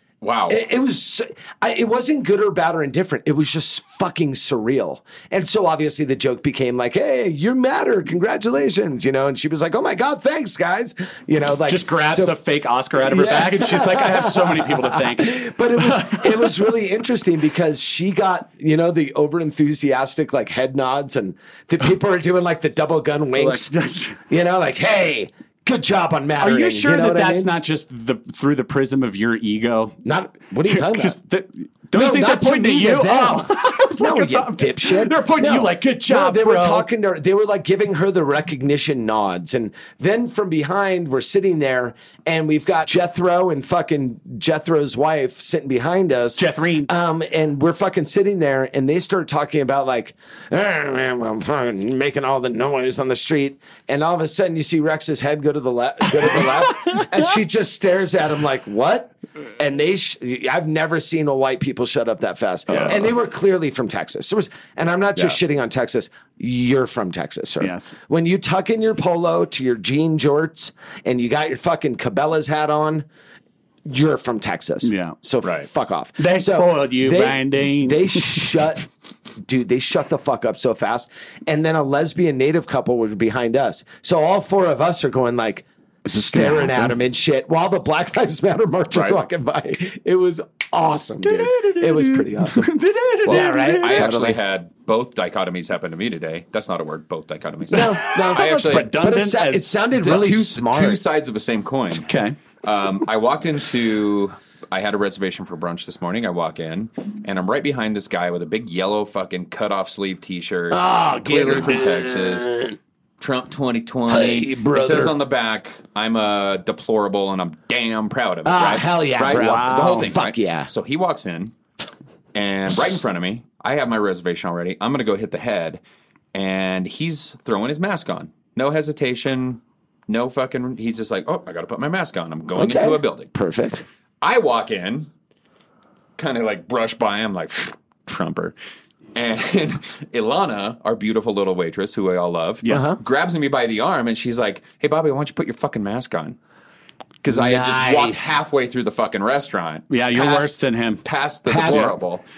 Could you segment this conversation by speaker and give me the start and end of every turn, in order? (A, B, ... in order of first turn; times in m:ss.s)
0:00.2-0:00.6 A
0:00.5-0:12.4 B
0:11.7-0:16.5 C
0:13.0-0:23.7 B
0:23.4-0:24.2 C
0:24.3-0:27.5 B
0:26.4-0:30.0 C
0:30.0-0:31.2 B
0:30.7-0:36.9 C
0:31.9-1:13.1 B
0:46.4-0:46.9 C
1:02.7-1:03.0 C
1:07.6-1:08.0 C
1:13.8-1:18.9 B
1:14.8-1:15.2 C
1:16.2-1:18.5 C
1:19.4-1:32.7 B
1:26.1-1:26.8 C
1:31.2-1:34.1 C
1:33.2-1:34.4 B
1:33.3-1:38.9 A
1:37.7-1:41.0 B
1:37.8-1:39.7 C
1:40.0-1:42.1 A
1:42.0-1:42.4 C
1:42.6-1:52.6 A
1:50.7-1:52.8 B
1:53.2-2:01.5 A
1:54.1-1:55.2 B
1:58.4-2:00.7 B
1:59.3-2:00.1 C
2:02.3-2:05.8 A
2:06.3-2:13.3 A
2:12.6-2:13.9 B
2:14.2-2:15.1 A
2:16.2-2:18.6 A
2:19.2-2:26.4 A
2:22.6-2:23.0 C
2:22.7-2:23.0 B
2:27.2-2:32.2 A
2:27.3-2:28.4 B
2:29.9-2:31.0 C
2:31.5-2:31.9 B